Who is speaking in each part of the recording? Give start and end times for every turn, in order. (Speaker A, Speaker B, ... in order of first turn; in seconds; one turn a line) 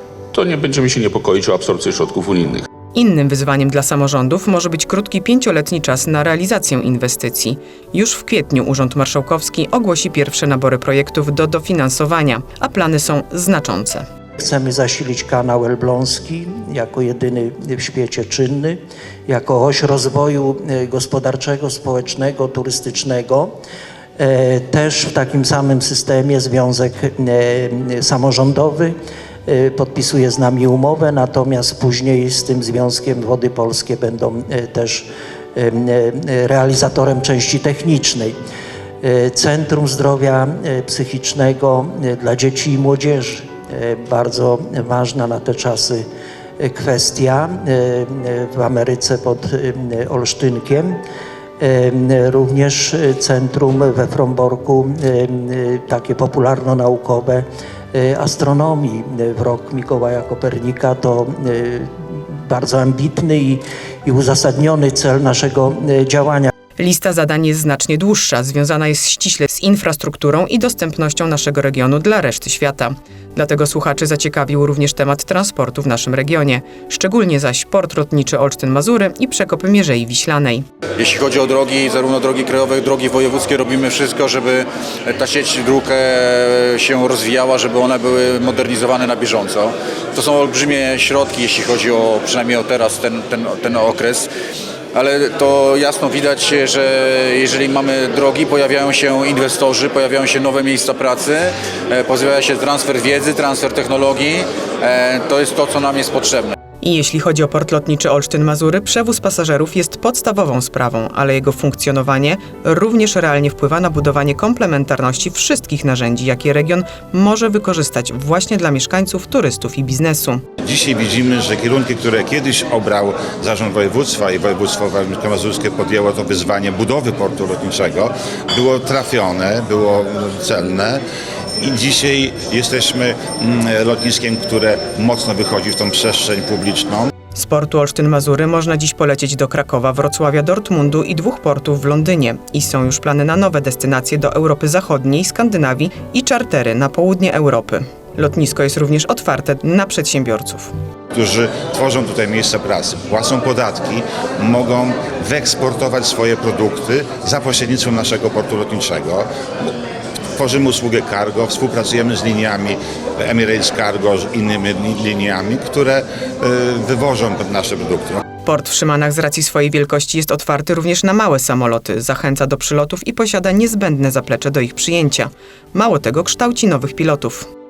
Speaker A: 0.3-2.7
Speaker B: 2.9-14.0
Speaker C: 14.4-23.5
Speaker C: 24.2-28.9
Speaker C: 29.4-38.4
Speaker C: 39.0-46.0
Speaker C: 46.6-51.0
Speaker C: 51.6-66.5
Speaker B: 66.8-80.7
Speaker D: 81.0-94.3
Speaker D: 94.9-106.5
Speaker B: 106.8-120.4
Speaker E: 120.6-131.0
Speaker E: 131.6-137.1
Speaker B: 137.3-150.7
Speaker E: 151.1-159.2
Speaker E: 160.3-168.2
Speaker B: 168.4-177.5